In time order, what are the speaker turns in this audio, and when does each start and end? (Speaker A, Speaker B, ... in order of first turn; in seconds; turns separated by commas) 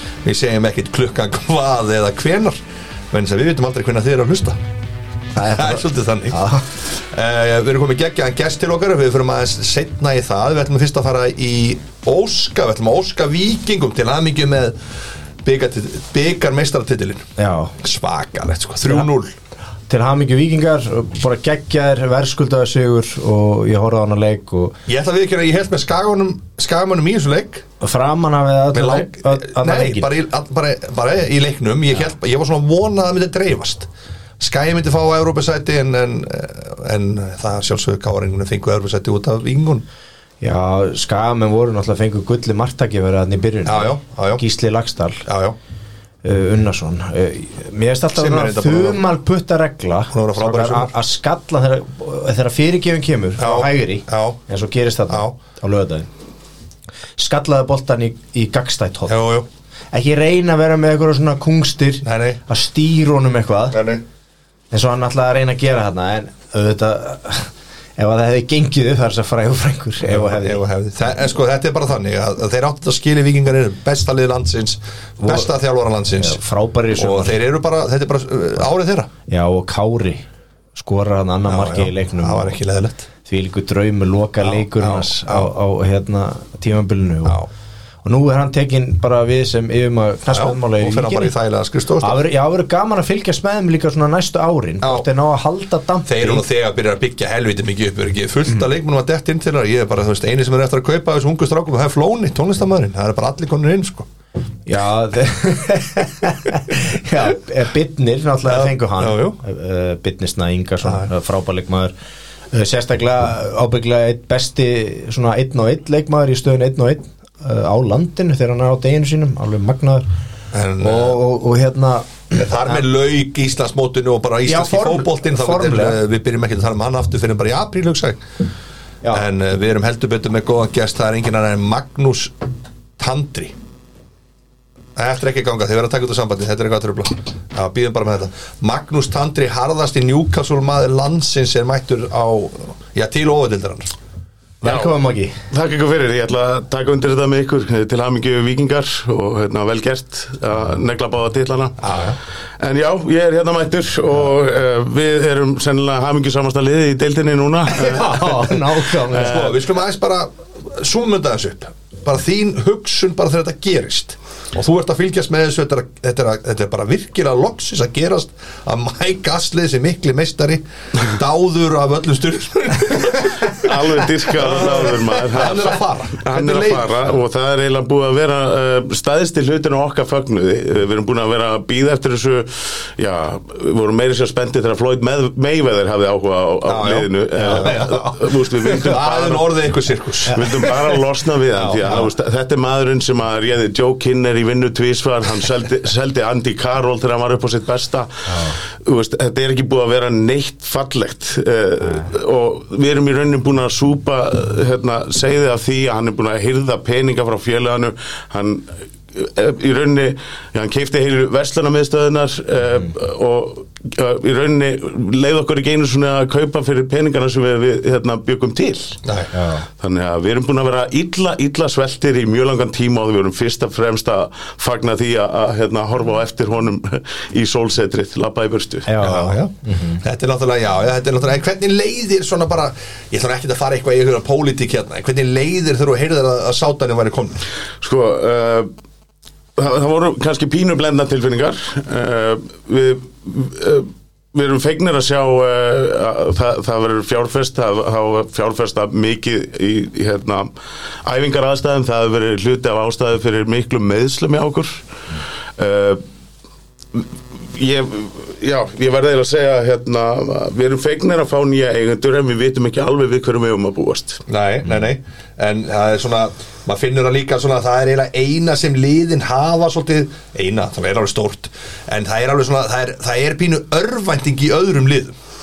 Speaker A: 0.2-4.6, Speaker A: 5.3-14.8, Speaker B: 5.4-6.6, Speaker A: 15.4-19.3, Speaker B: 17.4-17.7, Speaker B: 19.9-24.7, Speaker A: 24.9-27.6, Speaker B: 27.8-30.1, Speaker A: 28.7-33.9, Speaker A: 34.4-39.8, Speaker B: 40.4-45.2, Speaker A: 43.6-44.4, Speaker A: 45.2-45.6, Speaker B: 46.2-56.1, Speaker A: 48.1-49.1, Speaker A: 50.1-50.9, Speaker A: 53.4-54.4, Speaker B: 57.2-59.2, Speaker A: 59.1-59.5, Speaker B: 59.9-63.8, Speaker A: 62.0-62.4, Speaker A: 63.7-64.0, Speaker B: 64.7-70.6, Speaker A: 70.1-76.4, Speaker B: 75.2-75.5, Speaker B: 76.2-77.4, Speaker A: 76.9-79.1, Speaker B: 79.3-82.5, Speaker A: 81.5-83.1, Speaker B: 83.2-87.4, Speaker A: 84.4-85.5, Speaker B: 88.0-91.3, Speaker A: 90.3-92.2, Speaker B: 92.0-96.4, Speaker A: 94.8-95.0, Speaker A: 96.0-104.1, Speaker B: 104.7-111.9, Speaker A: 108.4-109.4, Speaker B: 112.5-120.0, Speaker A: 120.5-121.2, Speaker B: 120.8-122.8, Speaker A: 122.3-128.2, Speaker B: 124.5-126.0, Speaker A: 129.1-132.4, Speaker A: 133.0-133.5, Speaker A: 134.9-143.9, Speaker B: 144.6-145.4, Speaker C: 144.6-144.9, Speaker C: 145.5-151.8, Speaker A: 151.8-152.2, Speaker C: 152.6-158.4, Speaker B: 157.7-159.5, Speaker A: 157.9-173.7, Speaker C: 159.1-159.6, Speaker C: 173.4-189.6, Speaker A: 174.3-177.1, Speaker A: 186.7-190.4, Speaker B: 187.4-187.8, Speaker B: 190.2-191.0, Speaker C: 190.3-219.0, Speaker A: 191.6-192.0, Speaker B: 198.3-198.5, Speaker B: 201.8-202.1, Speaker A: 219.0-219.3, Speaker B: 219.3-219.7, Speaker C: 219.8-228.9, Speaker B: 228.9-230.0, Speaker A: 229.0-237.4, Speaker C: 237.8-238.7, Speaker C: 239.6-250.5, Speaker C: 251.0-254.8, Speaker C: 255.6-256.0, Speaker C: 256.9-264.2, Speaker A: 264.3-275.1